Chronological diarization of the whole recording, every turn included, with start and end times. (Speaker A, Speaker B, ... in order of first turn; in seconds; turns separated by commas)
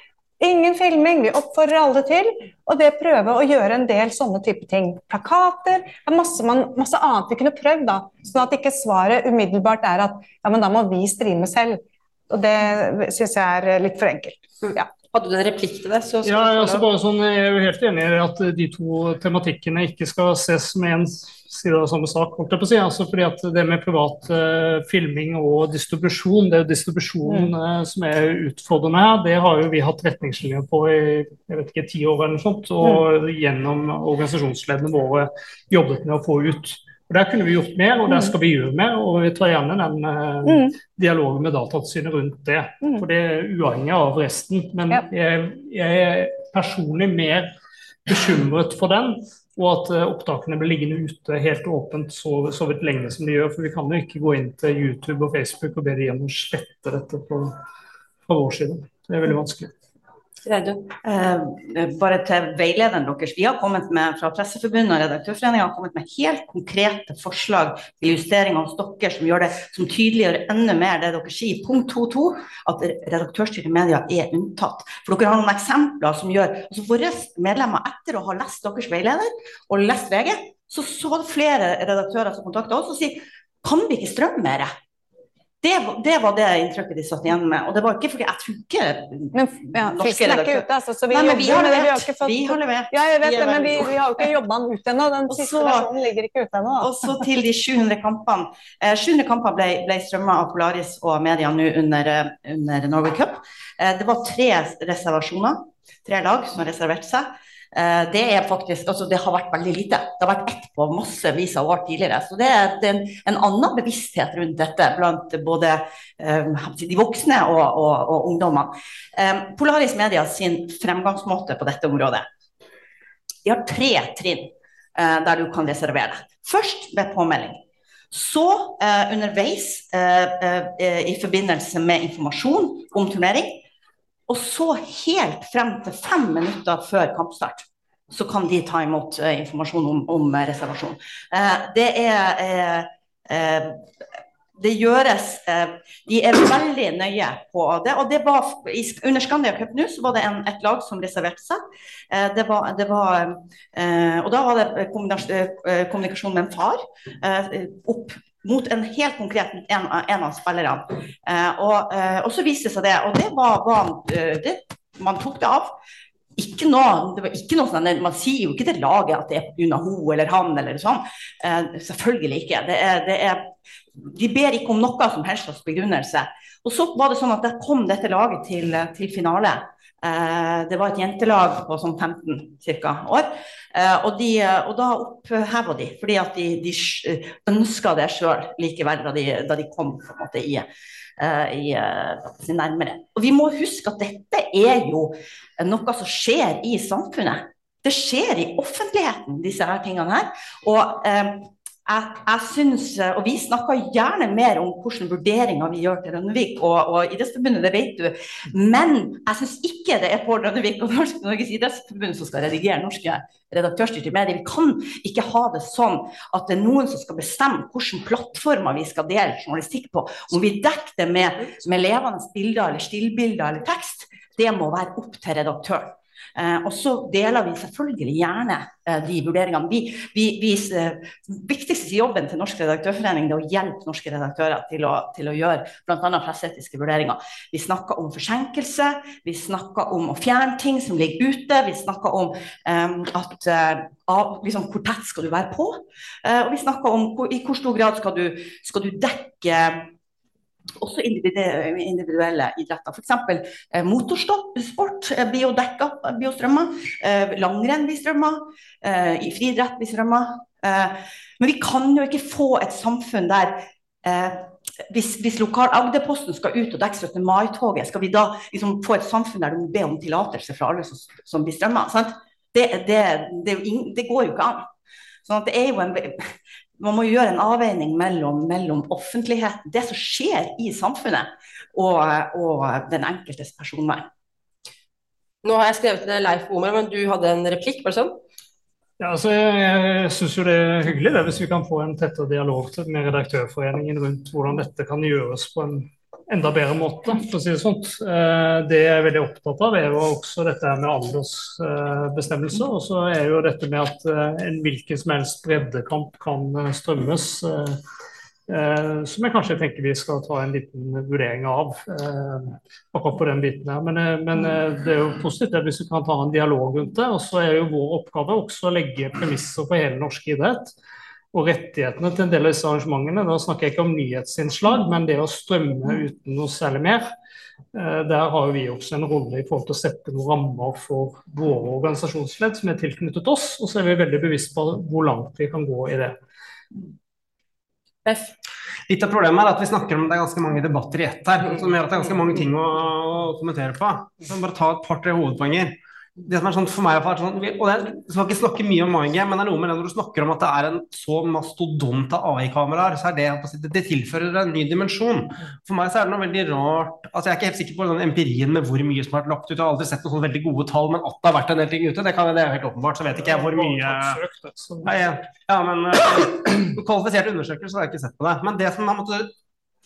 Speaker A: 0.4-14.9, Speaker B: 15.1-16.9, Speaker C: 16.2-47.5, Speaker A: 40.5-40.7, Speaker C: 48.1-57.6, Speaker C: 58.3-59.7, Speaker B: 60.4-60.9, Speaker D: 61.0-84.7, Speaker D: 85.6-94.0, Speaker A: 89.3-97.1, Speaker D: 95.3-95.9, Speaker D: 96.8-122.3, Speaker D: 123.5-127.6, Speaker D: 128.1-133.6, Speaker D: 134.3-143.8, Speaker D: 144.6-165.7, Speaker D: 166.4-190.7, Speaker D: 191.2-249.9, Speaker D: 250.8-274.7, Speaker D: 275.2-284.1, Speaker B: 285.4-288.2, Speaker C: 289.0-307.8, Speaker C: 308.5-320.7, Speaker C: 321.3-327.1, Speaker C: 327.7-336.2, Speaker B: 338.1-338.3, Speaker E: 338.9-364.2, Speaker C: 363.2-365.0, Speaker E: 364.8-369.3